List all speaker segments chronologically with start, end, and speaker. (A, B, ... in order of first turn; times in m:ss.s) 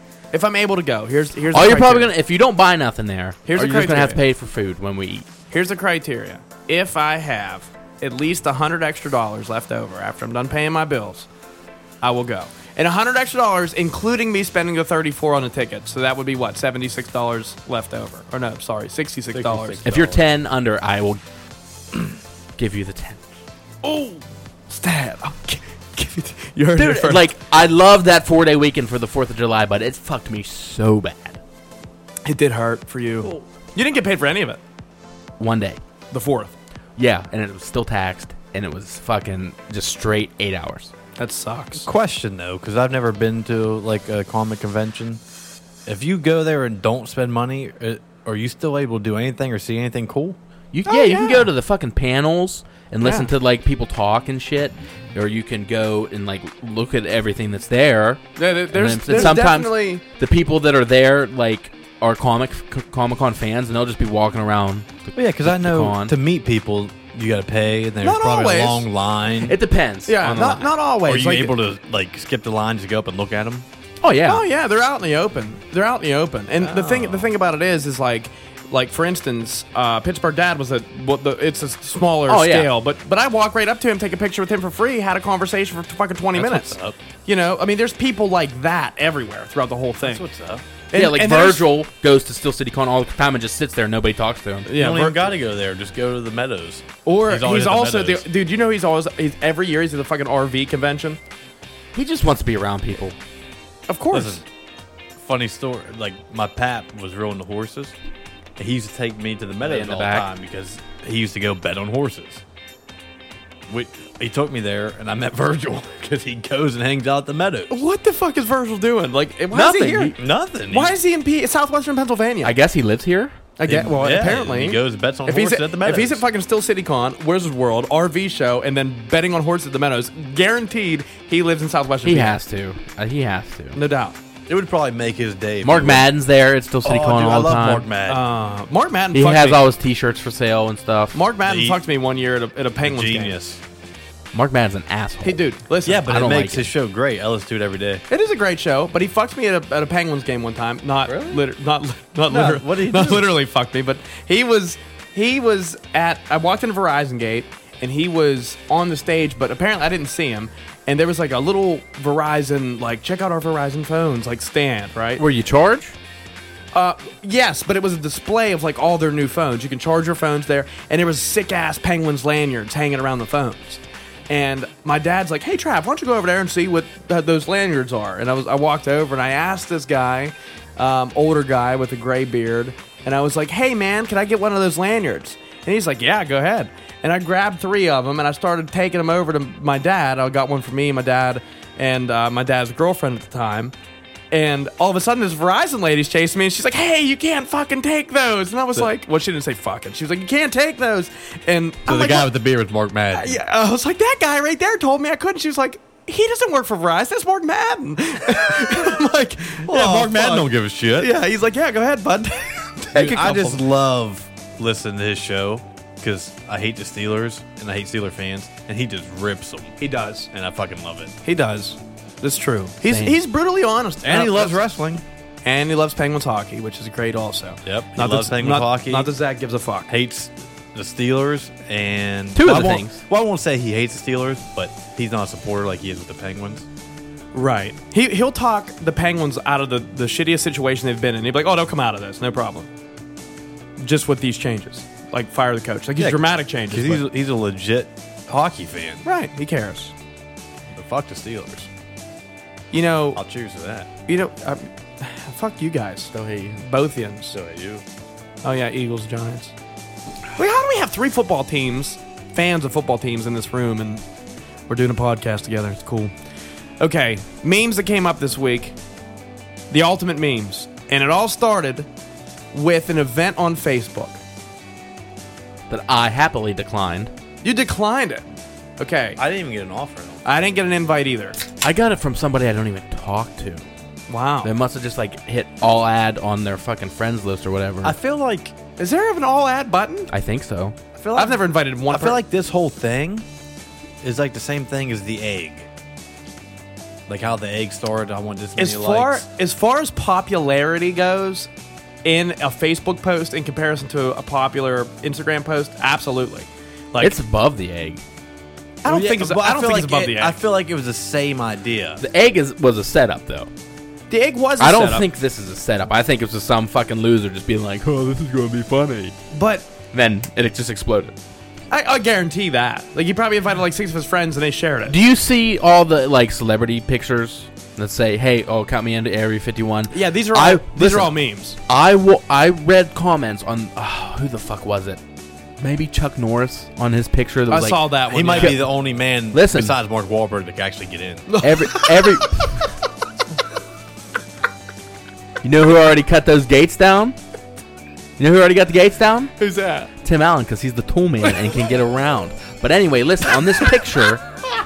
0:00.3-0:02.1 A
0:01.5-0:05.3 B
0:03.5-0:04.2 A
0:05.5-0:11.3 A
0:12.0-0:19.9 A
0:19.3-0:20.2 C
0:19.8-0:21.2 B
0:22.6-0:23.3 B
0:23.8-0:27.3 A
0:26.8-0:31.4 B
0:32.2-0:34.6 A
0:35.4-0:35.8 B
0:36.1-0:36.5 A
0:37.0-0:40.9 B
0:41.2-0:41.9 A
0:41.8-0:45.2 C
0:45.9-0:50.4 C
0:50.7-1:06.2 B
0:50.9-0:51.5 A
0:53.0-0:53.3 A
0:58.4-1:00.0 A
1:05.2-1:09.6 C
1:08.0-1:08.9 A
1:09.4-1:10.7 B
1:10.1-1:11.6 A
1:10.4-1:13.7 C
1:14.0-1:14.4 B
1:14.3-1:30.2 A
1:16.6-1:17.3 C
1:22.3-1:22.7 B
1:26.4-1:27.0 C
1:30.0-1:30.6 C
1:30.9-1:31.7 A
1:30.9-1:34.7 B
1:34.7-1:35.3 A
1:34.7-1:38.3 C
1:37.1-1:41.2 A
1:41.9-1:43.2 B
1:43.9-1:44.4 A
1:44.1-1:44.4 C
1:45.2-1:48.0 C
1:48.6-1:52.4 C
1:49.6-1:50.3 B
1:53.7-1:57.8 C
1:57.7-2:02.6 A
1:59.5-2:00.2 B
2:00.2-2:01.0 C
2:02.4-2:03.4 B
2:03.6-2:12.4 A
2:03.6-2:06.3 C
2:12.0-2:13.8 B
2:13.8-2:14.2 A
2:14.5-2:16.1 C
2:15.6-2:17.9 B
2:16.8-2:18.2 C
2:18.1-2:19.6 A
2:19.1-2:21.2 B
2:21.1-2:23.4 A
2:21.4-2:21.8 C
2:22.8-2:23.6 C
2:24.3-2:25.4 B
2:25.2-2:26.1 A
2:25.8-2:28.0 C
2:26.0-2:26.7 B
2:28.1-2:45.2 A
2:31.1-2:31.4 C
2:32.3-2:33.3 C
2:45.2-2:46.0 B
2:46.7-3:13.7 A
3:14.3-3:22.3 A
3:21.9-3:23.4 C
3:23.1-3:33.6 A
3:29.6-3:31.1 C
3:32.9-3:39.8 C
3:39.8-3:40.3 A
3:40.3-3:41.1 C
3:41.2-3:44.6 A
3:42.8-3:43.2 B
3:44.0-3:45.0 C
3:45.4-3:49.9 A
3:47.7-3:49.1 C
3:49.9-3:56.7 C
3:52.4-3:53.0 B
3:57.3-4:02.7 A
4:03.8-4:07.0 A
4:06.0-4:09.0 C
4:09.0-4:09.9 A
4:10.7-4:11.7 C
4:12.7-4:13.2 A
4:13.2-4:13.9 C
4:14.1-4:17.4 A
4:16.1-4:16.6 B
4:17.3-4:17.8 C
4:18.4-4:19.5 A
4:20.4-4:24.0 A
4:24.7-4:26.1 A
4:26.8-4:28.8 A
4:29.7-4:31.9 A
4:32.5-4:34.2 A
4:35.7-4:37.1 B
4:37.4-4:38.2 A
4:38.8-4:39.2 A
4:39.2-4:40.2 C
4:40.2-4:41.4 A
4:41.6-4:43.7 B
4:44.1-4:44.5 A
4:44.4-4:48.0 B
4:47.8-4:48.6 C
4:48.8-4:50.1 A
4:50.1-4:50.8 B
4:51.0-4:53.3 C
4:51.2-4:52.2 A
4:54.0-4:55.7 C
4:57.1-4:59.2 C
4:58.6-5:01.5 A
5:02.0-5:07.2 A
5:07.0-5:08.0 B
5:08.8-5:10.4 A
5:08.8-5:12.0 C
5:12.0-5:13.5 B
5:14.1-5:15.1 A
5:14.6-5:19.2 B
5:19.3-5:19.7 A
5:19.9-5:21.2 B
5:21.7-5:25.0 A
5:24.9-5:31.2 B
5:29.9-5:31.6 A
5:31.7-5:35.0 B
5:35.6-5:38.6 B
5:37.5-5:38.6 A
5:38.1-5:41.3 C
5:39.3-5:39.8 B
5:41.3-5:42.2 A
5:41.4-5:42.6 B
5:45.4-5:47.2 B
5:48.2-5:49.3 B
5:49.4-5:49.9 A
5:50.0-5:54.2 B